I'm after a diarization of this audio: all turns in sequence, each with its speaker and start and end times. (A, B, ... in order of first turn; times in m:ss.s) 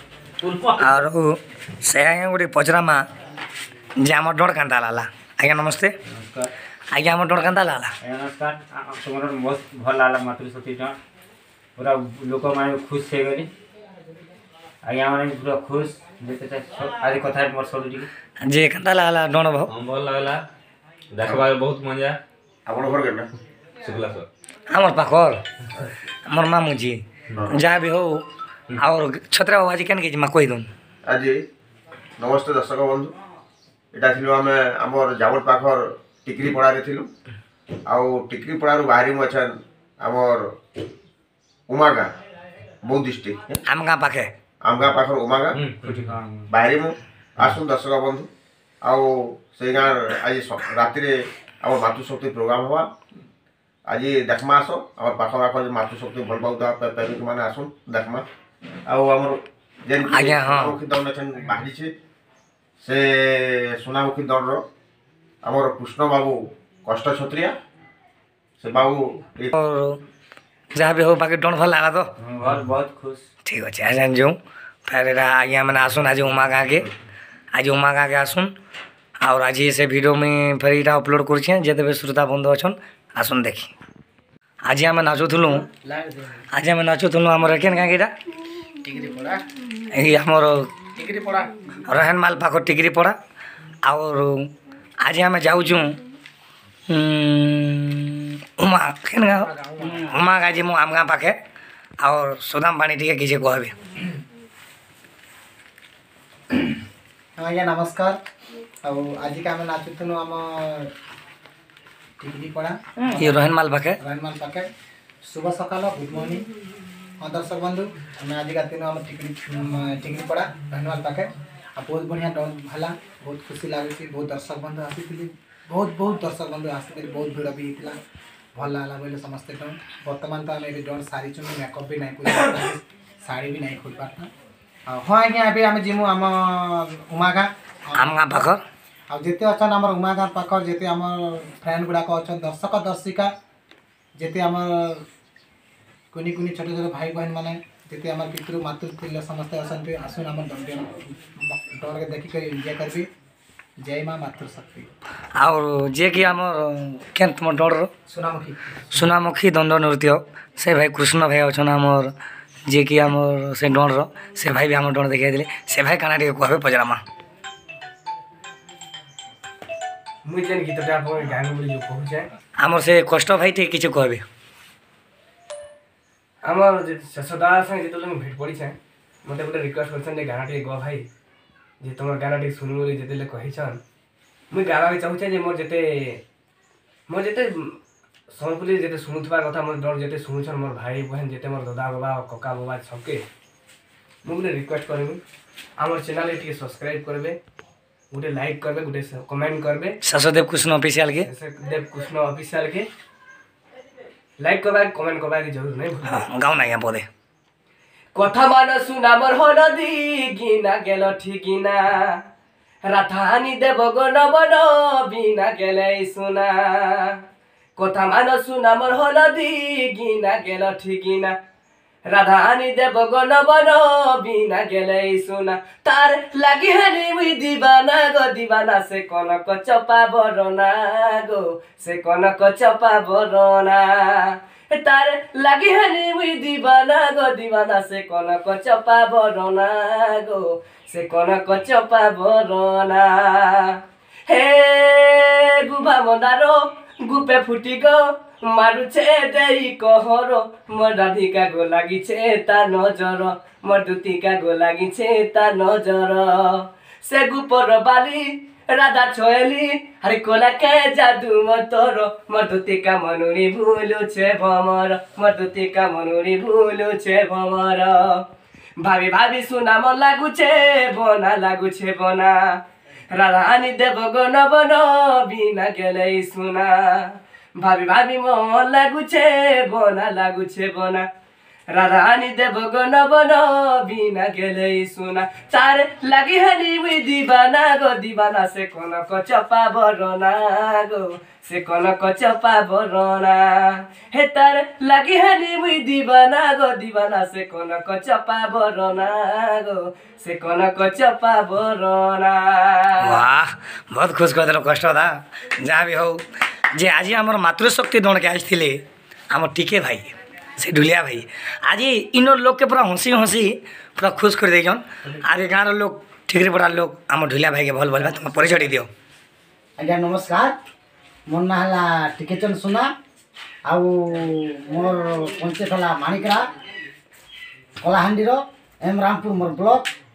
0:00.4-0:00.9 A
0:00.8-0:03.0 B
0:04.0-0:05.9 B
0:06.1-0:06.5 A
0:06.9-0:07.9 B
0:08.0-0:11.0 A
0:11.8-0:13.5 A
0:14.8-0:18.1 A
0:18.4-0:19.7 B
0:19.7-0:20.4 C
0:21.1-0:22.2 C
0:21.2-0:21.5 D
0:22.7-0:23.3 D
0:23.8-0:24.3 C
0:24.7-0:25.4 B
0:26.3-0:28.2 B
0:28.8-0:30.7 B
0:31.1-0:31.4 D
0:32.2-0:33.2 D
0:33.9-0:37.1 D
0:37.9-0:40.4 D
0:41.7-0:42.1 D
0:42.8-0:43.6 D
0:43.7-0:44.3 B
0:44.6-0:45.6 D
0:45.6-0:46.1 C
0:45.9-0:46.5 A
0:46.5-0:48.3 D
0:48.8-0:52.9 D
0:53.9-0:58.2 D
0:58.9-1:01.9 D
1:00.1-1:00.8 B
1:02.8-1:04.6 D
1:05.4-1:07.6 D
1:08.6-1:09.5 D
1:09.5-1:10.0 B
1:10.7-1:12.1 B
1:12.3-1:13.2 A
1:13.5-1:16.9 B
1:17.5-1:18.5 B
1:19.2-1:23.7 B
1:24.7-1:25.7 B
1:25.8-1:26.4 E
1:26.5-1:28.1 B
1:28.8-1:29.4 E
1:29.9-1:30.7 B
1:31.0-1:31.6 E
1:31.9-1:33.2 B
1:33.8-1:34.5 B
1:35.0-1:36.0 B
1:36.9-1:41.4 B
1:39.4-1:40.1 E
1:42.0-1:43.8 B
1:47.4-1:48.2 E
1:48.8-1:50.9 E
1:52.2-1:53.4 E
1:53.0-1:54.0 B
1:54.0-1:54.7 E
1:55.2-1:56.5 E
1:57.2-2:08.0 E
2:08.6-2:14.3 E
2:14.9-2:18.5 E
2:18.0-2:18.6 B
2:19.1-2:23.3 E
2:24.2-2:25.0 E
2:26.1-2:33.1 E
2:33.8-2:34.9 E
2:35.4-2:37.9 B
2:38.1-2:39.0 E
2:38.9-2:42.1 B
2:42.7-2:47.0 B
2:50.3-2:52.3 F
2:52.6-2:54.2 B
2:56.5-3:01.1 F
3:01.8-3:03.8 F
3:04.5-3:06.2 F
3:07.1-3:07.8 F
3:08.3-3:13.2 F
3:14.2-3:15.2 F
3:15.8-3:17.4 F
3:18.1-3:20.0 F
3:20.0-3:21.3 B
3:21.2-3:22.9 F
3:24.4-3:26.2 F
3:26.1-3:27.1 B
3:28.2-3:32.2 F
3:32.9-3:37.2 F
3:37.8-3:41.4 F
3:42.1-4:28.2 F
4:28.8-4:32.5 F
4:33.1-4:41.1 F
4:41.7-5:03.2 F
5:03.0-5:06.2 B
5:06.8-5:08.8 B
5:09.3-5:18.9 B
5:19.8-5:20.5 G
5:21.3-5:22.9 G
5:23.7-5:26.4 G
5:27.8-5:29.9 G